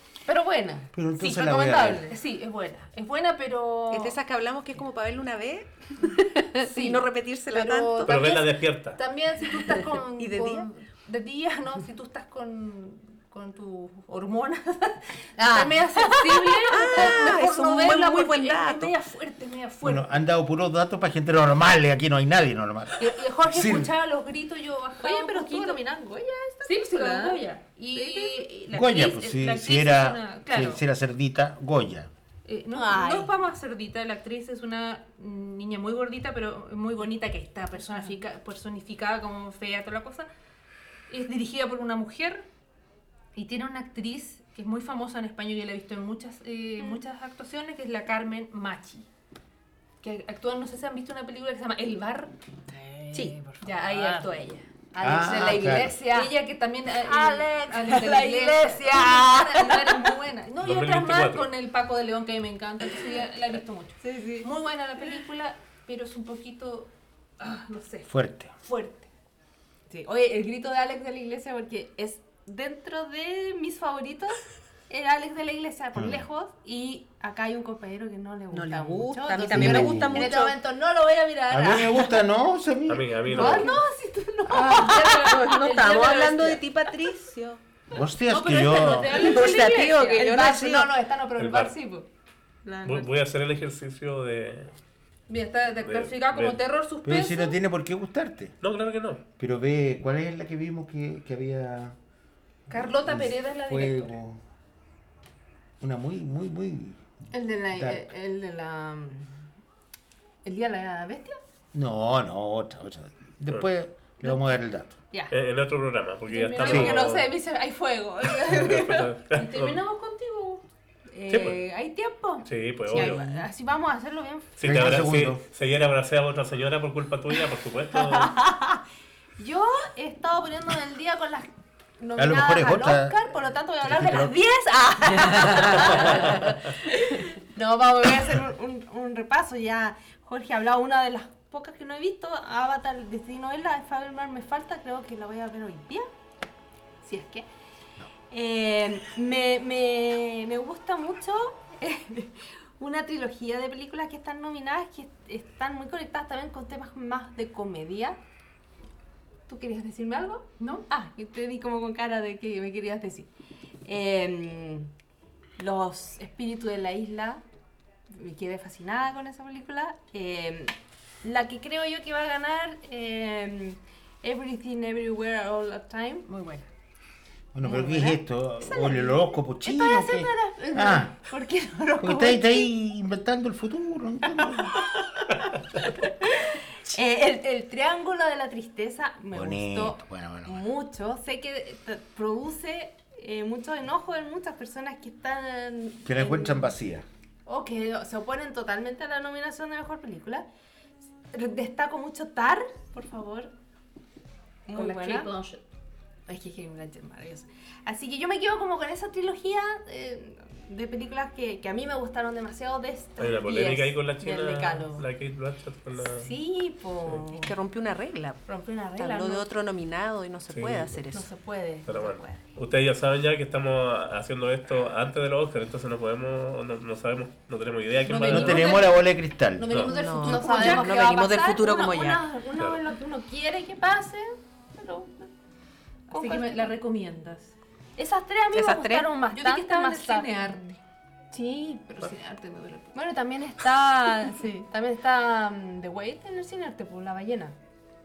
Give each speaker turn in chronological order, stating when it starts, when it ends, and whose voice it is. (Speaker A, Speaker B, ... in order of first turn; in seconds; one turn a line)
Speaker A: 0.3-2.2
Speaker B: 0.9-2.0
Speaker C: 1.3-4.2
Speaker D: 3.9-8.3
Speaker C: 6.7-7.0
Speaker A: 7.5-8.3
Speaker E: 8.0-9.0
Speaker C: 8.1-20.1
Speaker D: 9.5-10.7
Speaker A: 15.4-17.3
Speaker D: 16.4-18.9
Speaker B: 19.8-23.9
Speaker C: 23.0-25.9
Speaker A: 25.0-28.5
Speaker C: 26.6-30.8
Speaker B: 28.7-32.1
Speaker C: 32.4-40.3
Speaker A: 32.7-33.3
Speaker C: 41.1-42.4
Speaker C: 43.3-49.1
Speaker C: 50.0-52.3
Speaker A: 52.7-54.2
Speaker C: 53.6-54.7
Speaker A: 54.9-56.3
Speaker B: 55.0-56.0
Speaker C: 55.2-68.1
Speaker A: 56.9-60.2
Speaker E: 60.6-61.5
Speaker A: 64.0-64.5
Speaker B: 68.1-68.5
Speaker C: 68.6-69.1
Speaker A: 69.9-82.2
Speaker B: 76.0-76.2
Speaker D: 78.5-80.5
Speaker B: 79.5-80.3
Speaker B: 81.5-83.7
Speaker E: 82.9-83.7
Speaker A: 83.3-86.2
Speaker C: 83.4-83.8
Speaker D: 84.5-87.6
Speaker C: 84.5-86.6
Speaker B: 87.9-89.3
Speaker C: 88.3-90.4
Speaker A: 88.8-89.5
Speaker D: 89.1-90.9
Speaker A: 90.1-92.0
Speaker E: 91.4-91.7
Speaker A: 92.6-93.1
Speaker E: 92.8-94.7
Speaker C: 95.3-97.6
Speaker E: 95.8-96.6
Speaker B: 97.0-98.5
Speaker E: 98.6-99.2
Speaker B: 99.4-102.0
Speaker B: 102.7-104.4
Speaker C: 102.7-104.2
Speaker B: 105.8-107.0
Speaker A: 107.3-109.3
Speaker B: 107.7-108.1
Speaker A: 110.4-111.4
Speaker B: 111.7-115.0
Speaker E: 115.3-117.3
Speaker A: 116.3-124.7
Speaker C: 116.5-117.0
Speaker E: 118.4-119.8
Speaker C: 119.4-120.6
Speaker E: 121.3-121.6
Speaker E: 122.4-123.2
Speaker E: 124.6-128.4
Speaker B: 124.6-125.4
Speaker A: 128.0-128.8
Speaker A: 129.4-146.1
Speaker B: 132.2-133.2
Speaker B: 133.8-134.3
Speaker A: 147.0-147.5
Speaker A: 148.3-158.2
Speaker A: 159.5-163.3
Speaker C: 160.6-160.9
Speaker A: 163.8-164.9
Speaker A: 165.6-167.4
Speaker A: 168.1-176.3
Speaker C: 176.3-176.7
Speaker B: 177.5-181.2
Speaker A: 177.6-182.7
Speaker B: 182.0-184.8
Speaker A: 185.8-196.7
Speaker B: 189.3-190.7
Speaker B: 196.0-197.1
Speaker A: 197.4-200.4
Speaker A: 201.3-203.5
Speaker A: 204.7-205.6
Speaker C: 204.7-205.3
Speaker A: 206.3-215.1
Speaker E: 213.2-216.3
Speaker A: 216.0-217.5
Speaker D: 217.1-218.4
Speaker A: 218.4-219.5
Speaker D: 218.9-221.3
Speaker E: 220.5-221.0
Speaker A: 221.1-222.4
Speaker E: 221.8-228.8
Speaker C: 228.1-228.9
Speaker B: 228.3-229.8
Speaker A: 228.5-228.8
Speaker C: 229.6-231.3
Speaker A: 229.7-235.3
Speaker D: 229.8-232.2
Speaker A: 236.1-236.8
Speaker C: 236.1-237.5
Speaker A: 238.0-240.7
Speaker D: 238.5-239.1
Speaker C: 239.2-240.8
Speaker A: 241.3-242.1
Speaker C: 242.0-243.0
Speaker A: 242.9-247.6